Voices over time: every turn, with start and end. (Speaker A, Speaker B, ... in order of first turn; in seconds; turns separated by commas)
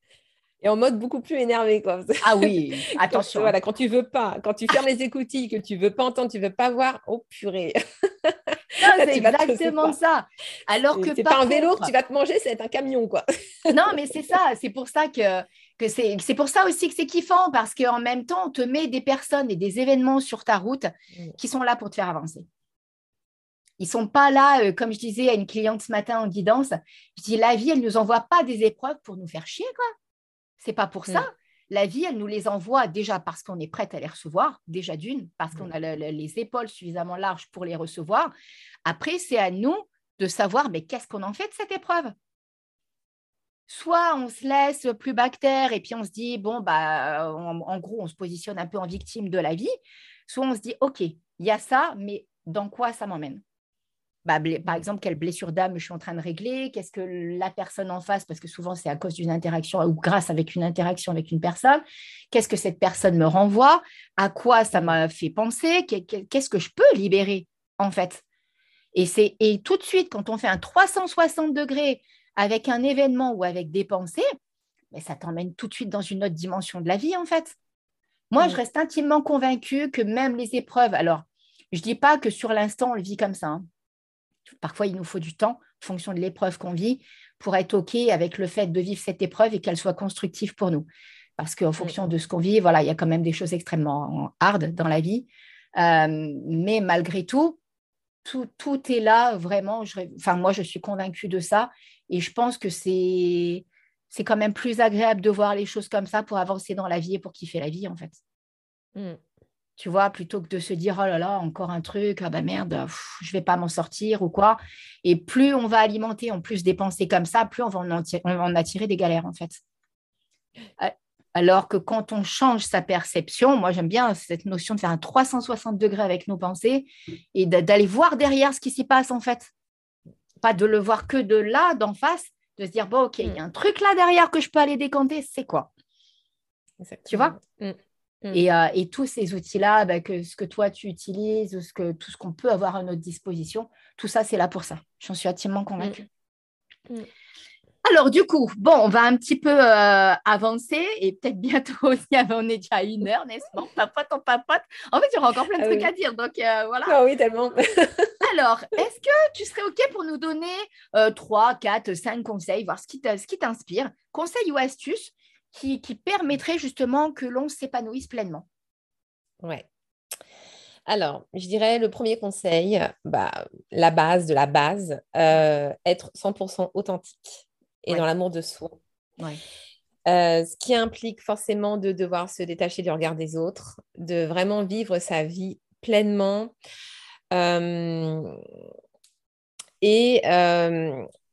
Speaker A: 0.6-9.9, Speaker B: 2.2-3.5, Speaker B: 8.8-11.9, Speaker A: 10.9-14.0, Speaker B: 13.7-22.4, Speaker B: 23.8-29.9, Speaker B: 30.6-38.3, Speaker B: 38.8-42.1, Speaker B: 43.7-49.7, Speaker B: 50.3-53.4, Speaker B: 54.2-68.2, Speaker B: 68.9-74.2, Speaker B: 74.9-77.5, Speaker B: 78.3-83.6, Speaker B: 84.5-90.8, Speaker B: 91.4-97.6, Speaker B: 98.2-108.2, Speaker A: 108.9-109.2, Speaker B: 109.8-119.6, Speaker B: 120.8-129.5, Speaker B: 130.4-135.7, Speaker A: 136.8-138.4, Speaker B: 137.1-137.4, Speaker B: 138.3-146.0, Speaker B: 147.8-157.0, Speaker A: 155.6-155.9, Speaker A: 156.9-158.1, Speaker B: 158.2-168.4, Speaker A: 170.9-178.8, Speaker A: 180.1-186.5, Speaker A: 187.3-188.4, Speaker A: 189.8-191.1